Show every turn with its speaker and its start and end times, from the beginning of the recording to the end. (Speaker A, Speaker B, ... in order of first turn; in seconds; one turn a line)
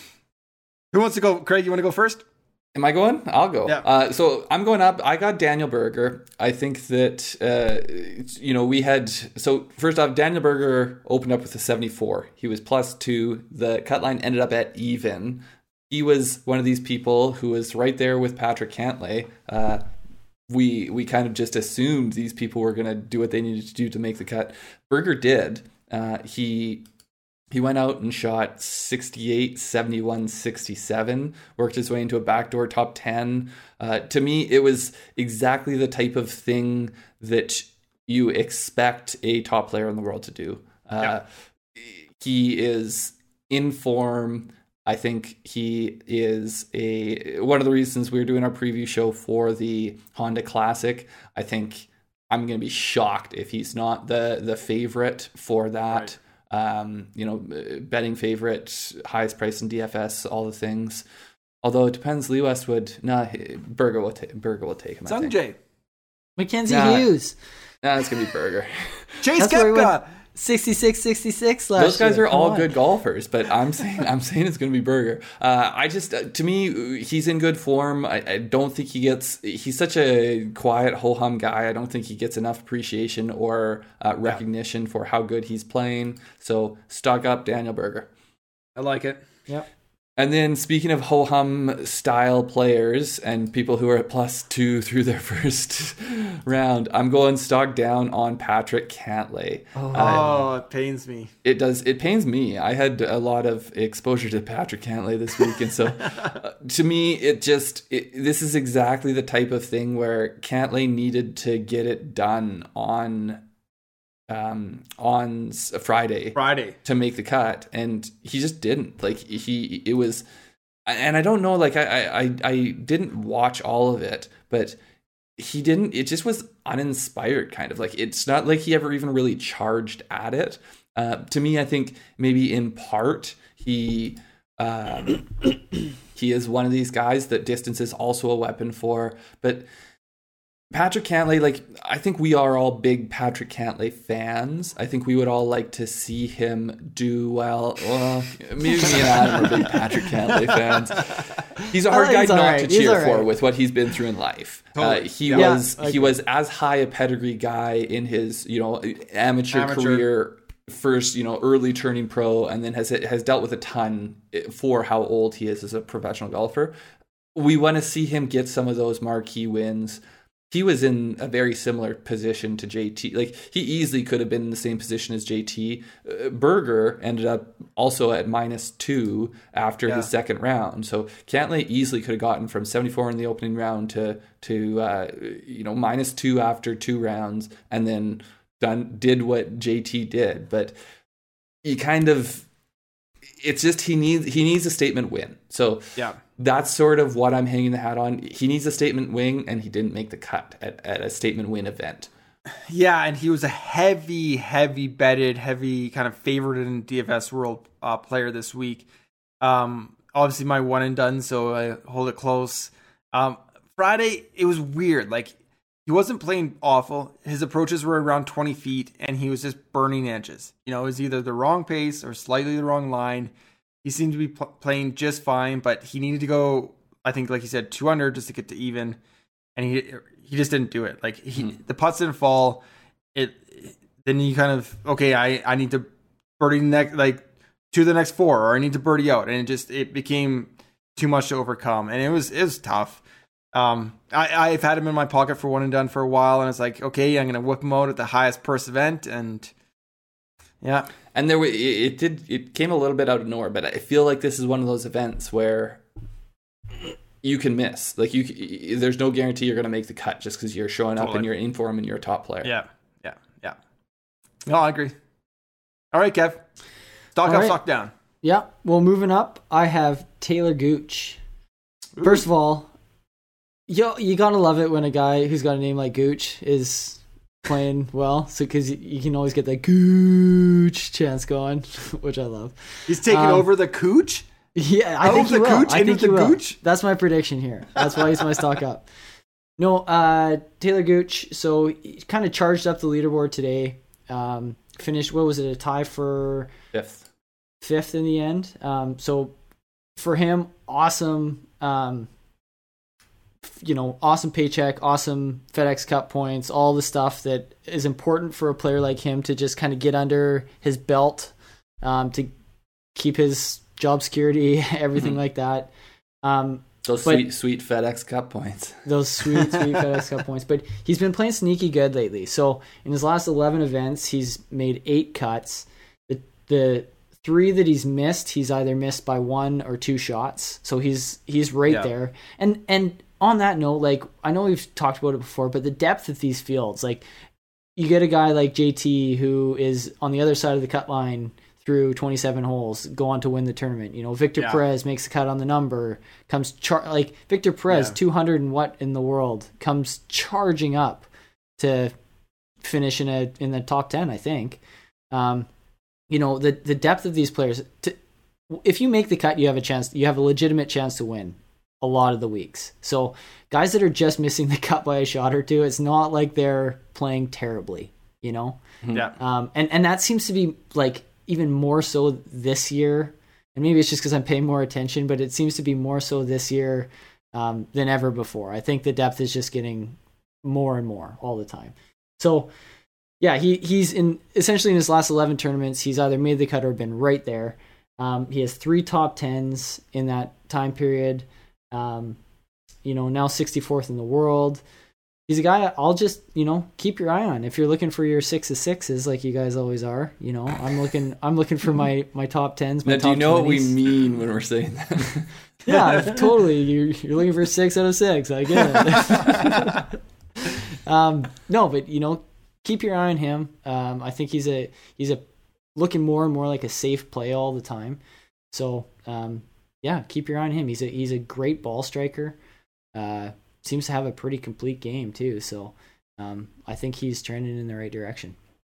Speaker A: 0.9-2.2
Speaker B: 2.7-19.8
Speaker B: 20.5-26.9
Speaker B: 27.5-41.2
Speaker B: 41.8-61.0
Speaker B: 61.6-65.4
Speaker A: 65.1-65.6
Speaker C: 66.4-67.4
Speaker B: 66.7-67.1
Speaker B: 67.8-69.3
Speaker A: 69.2-70.0
Speaker C: 69.4-72.7
Speaker B: 71.8-88.1
Speaker A: 88.8-89.2
Speaker B: 90.2-100.5
Speaker C: 99.8-100.3
Speaker A: 99.9-101.3
Speaker B: 101.4-113.4
Speaker B: 114.3-120.2
Speaker A: 116.3-116.8
Speaker B: 120.9-124.8
Speaker B: 125.4-139.7
Speaker B: 140.7-151.1
Speaker A: 149.0-151.2
Speaker B: 151.6-166.7
Speaker C: 151.9-153.3
Speaker A: 154.8-155.6
Speaker C: 155.3-156.2
Speaker A: 159.5-160.1
Speaker B: 167.3-190.8
Speaker B: 191.6-192.5
Speaker B: 193.4-195.8
Speaker B: 196.4-202.1
Speaker A: 202.5-208.9
Speaker A: 209.4-215.3
Speaker A: 215.9-223.3
Speaker A: 223.8-229.0
Speaker A: 229.6-232.6
Speaker A: 233.2-235.9
Speaker A: 236.4-243.0
Speaker A: 243.5-249.5
Speaker A: 250.6-250.9
Speaker B: 251.1-255.8
Speaker B: 257.2-262.6
Speaker A: 261.0-261.3
Speaker A: 262.4-263.6
Speaker A: 264.5-264.9
Speaker A: 265.9-266.4
Speaker A: 267.1-267.9
Speaker C: 267.2-267.6
Speaker C: 268.2-271.2
Speaker A: 272.0-272.2
Speaker C: 272.0-272.7
Speaker C: 273.7-283.5
Speaker A: 282.9-284.3
Speaker C: 284.6-288.9
Speaker A: 285.0-286.6
Speaker C: 289.6-296.5
Speaker B: 296.7-297.1
Speaker C: 297.6-299.3
Speaker C: 300.0-302.1
Speaker C: 303.4-312.3
Speaker C: 312.9-315.7
Speaker C: 316.2-317.2
Speaker B: 316.8-318.9
Speaker C: 318.9-337.0
Speaker C: 337.8-351.1
Speaker A: 347.7-347.9
Speaker C: 351.6-351.9
Speaker C: 352.6-354.6
Speaker C: 355.1-355.5
Speaker C: 356.1-358.0
Speaker C: 358.5-368.6
Speaker B: 368.8-369.1
Speaker C: 369.2-382.5
Speaker C: 383.2-392.2
Speaker C: 392.9-394.6
Speaker C: 395.3-403.8
Speaker B: 402.9-405.3
Speaker C: 405.7-409.9
Speaker A: 408.7-409.3
Speaker C: 410.5-415.2
Speaker C: 415.8-418.0
Speaker C: 418.5-422.4
Speaker C: 422.9-428.4